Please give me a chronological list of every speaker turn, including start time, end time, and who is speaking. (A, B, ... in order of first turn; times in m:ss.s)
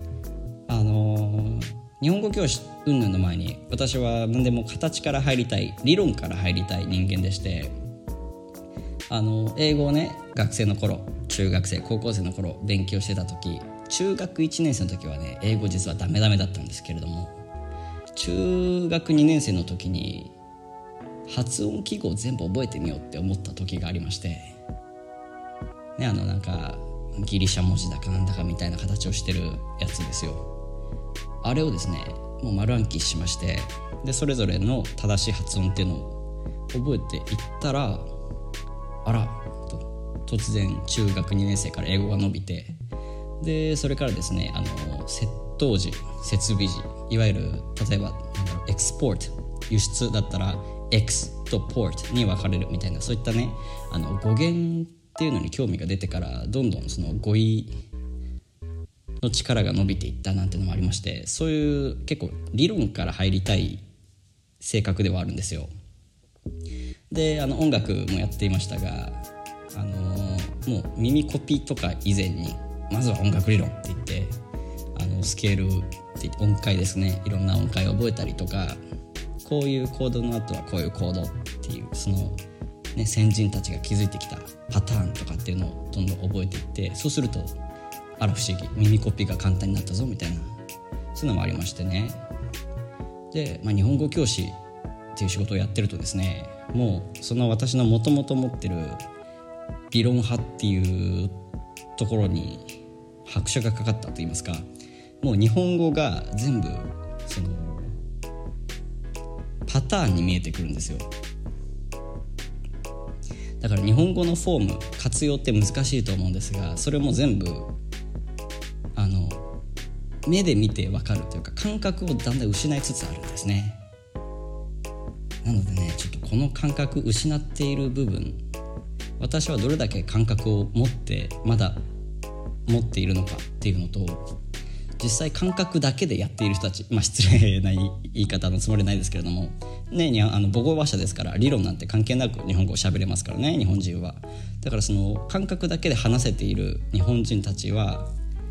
0:00.7-0:07.7 A
0:09.1-0:17.4 A
0:18.2-0:20.3 A
0:21.3-0:24.6 A
0:26.0-0:30.5 A
0:31.4-0:36.2 A
0:36.7-0:38.1 A
0:39.0-0:42.8 A
0:43.4-0:57.7 A
0:59.2-1:03.8 A
1:04.6-1:05.7 A
1:07.1-1:09.2 A
1:09.7-1:14.4 A
1:15.0-1:18.8 A
1:19.4-1:22.4 A
1:23.0-1:27.6 A
1:28.2-1:30.6 A
1:31.1-1:32.2 A
1:33.3-1:34.6 A
1:35.2-1:39.0 A
1:39.9-1:41.4 A
1:42.0-1:44.7 A
1:45.2-1:48.0 A
1:49.7-1:51.1 A
1:53.6-1:57.7 A
1:59.0-1:59.4 A
2:00.3-2:03.8 A
2:05.4-2:08.4 A
2:09.2-2:11.8 A
2:12.7-2:14.3 A
2:15.0-2:28.1 A